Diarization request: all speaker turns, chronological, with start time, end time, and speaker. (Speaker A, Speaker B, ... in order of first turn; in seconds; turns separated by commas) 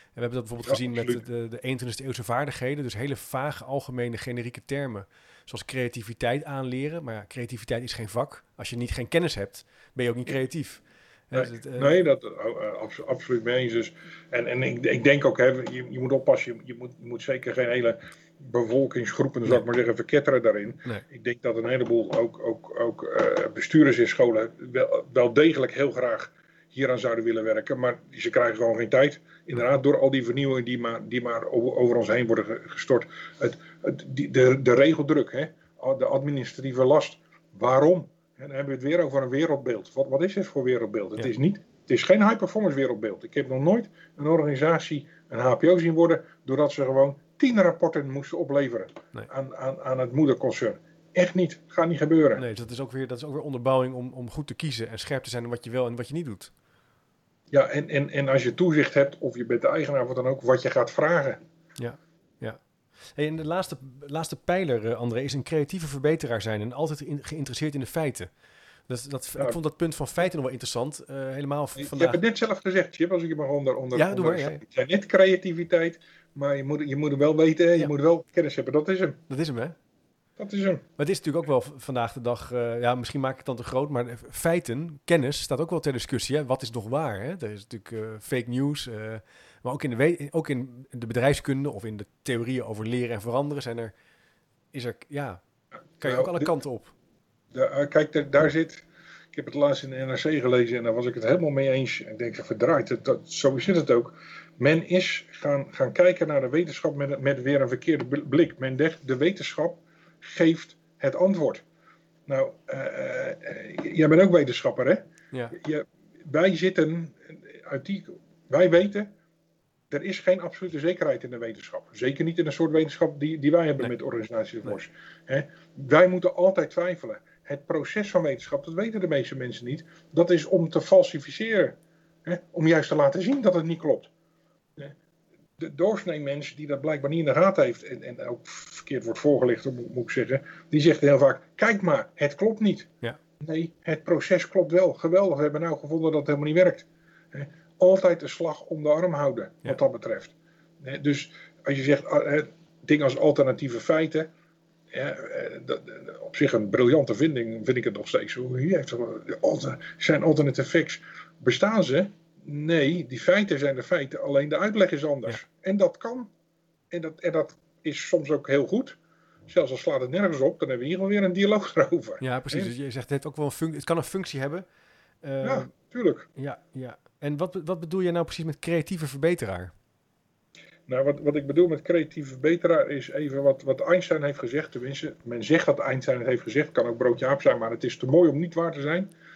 Speaker A: 0.2-11.9, Speaker B: 0.6-1.2, Speaker B: 11.3-52.4, Speaker A: 52.4-56.5, Speaker B: 57.5-61.4, Speaker A: 61.8-62.6, Speaker A: 63.2-68.3, Speaker A: 68.9-72.2, Speaker B: 71.8-79.2, Speaker A: 74.0-74.6, Speaker A: 79.3-79.8, Speaker B: 80.4-80.8, Speaker A: 81.0-93.9, Speaker A: 94.7-95.4, Speaker A: 96.0-96.9, Speaker B: 96.0-96.5, Speaker B: 97.5-111.6, Speaker B: 112.3-115.0, Speaker B: 115.5-119.1, Speaker B: 119.9-134.1, Speaker B: 135.6-154.3, Speaker B: 154.9-166.3, Speaker B: 166.9-169.0, Speaker B: 169.5-172.7, Speaker A: 172.2-174.6, Speaker A: 175.2-175.7, Speaker B: 175.4-176.3, Speaker A: 176.4-179.7, Speaker B: 180.9-189.1